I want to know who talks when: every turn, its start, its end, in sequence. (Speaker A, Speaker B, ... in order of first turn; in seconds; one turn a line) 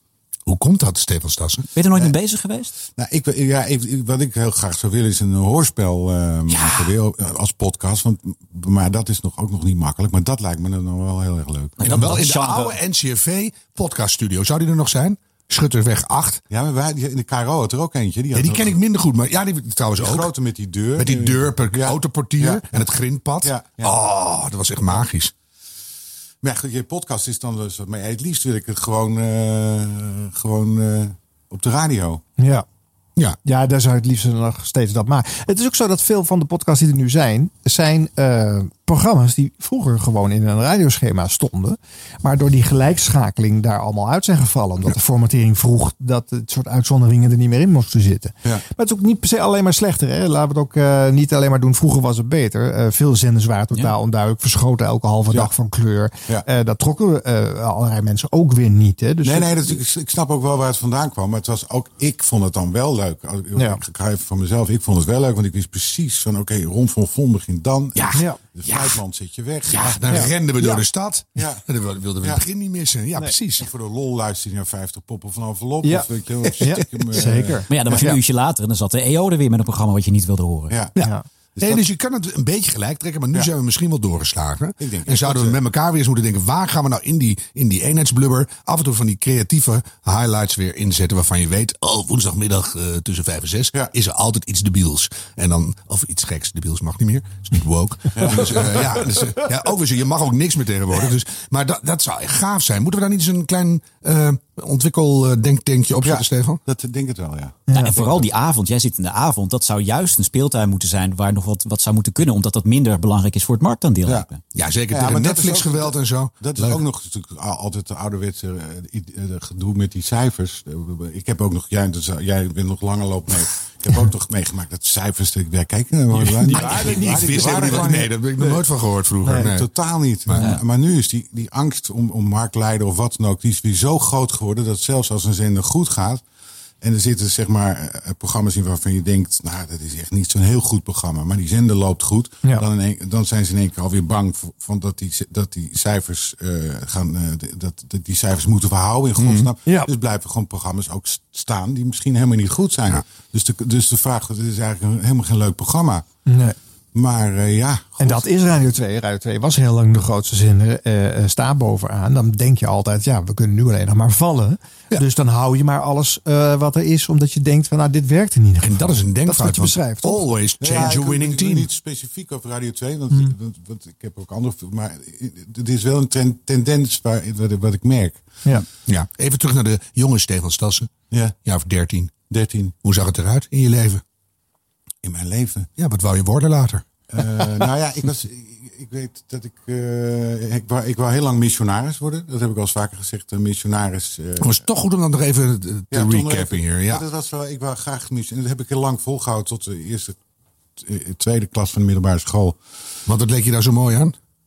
Speaker A: 0.5-1.7
Speaker B: 1.8-2.7
Speaker C: 2.8-11.8
Speaker B: 11.8-12.8
Speaker A: 11.9-16.4
Speaker C: 16.5-18.8
Speaker A: 18.3-20.3
Speaker C: 20.0-22.9
Speaker A: 21.0-25.3
Speaker C: 23.4-24.0
Speaker C: 26.4-32.2
Speaker D: 32.4-32.7
Speaker D: 33.4-59.8
Speaker C: 59.2-70.3
Speaker D: 63.5-63.8
Speaker A: 68.0-69.0
Speaker D: 68.1-68.5
Speaker A: 69.7-73.7
Speaker D: 70.1-70.8
Speaker C: 71.4-71.6
Speaker C: 73.6-77.6
Speaker D: 75.8-78.2
Speaker B: 77.7-80.8
Speaker C: 80.7-81.0
Speaker A: 81.0-106.6
Speaker D: 81.0-81.2
Speaker C: 81.6-81.8
Speaker C: 84.8-85.6
Speaker C: 98.2-99.3
Speaker C: 106.0-108.3
Speaker D: 107.7-108.0
Speaker B: 107.8-114.4
Speaker A: 114.5-116.8
Speaker C: 114.9-128.6
Speaker A: 126.1-129.7
Speaker D: 126.4-127.9
Speaker D: 129.2-129.5
Speaker C: 129.5-136.2
Speaker A: 130.3-130.6
Speaker C: 136.8-156.1
Speaker A: 149.2-149.5
Speaker D: 149.7-149.9
Speaker D: 156.3-156.6
Speaker C: 156.9-158.3
Speaker D: 158.0-170.3
Speaker A: 168.6-171.7
Speaker C: 170.6-178.4
Speaker A: 178.9-180.9
Speaker A: 181.4-182.2
Speaker C: 182.3-182.8
Speaker A: 182.8-184.0
Speaker C: 185.0-185.7
Speaker A: 185.8-186.9
Speaker C: 187.1-194.6
Speaker A: 194.4-197.0
Speaker C: 195.9-200.2
Speaker C: 200.8-202.6
Speaker A: 203.1-204.2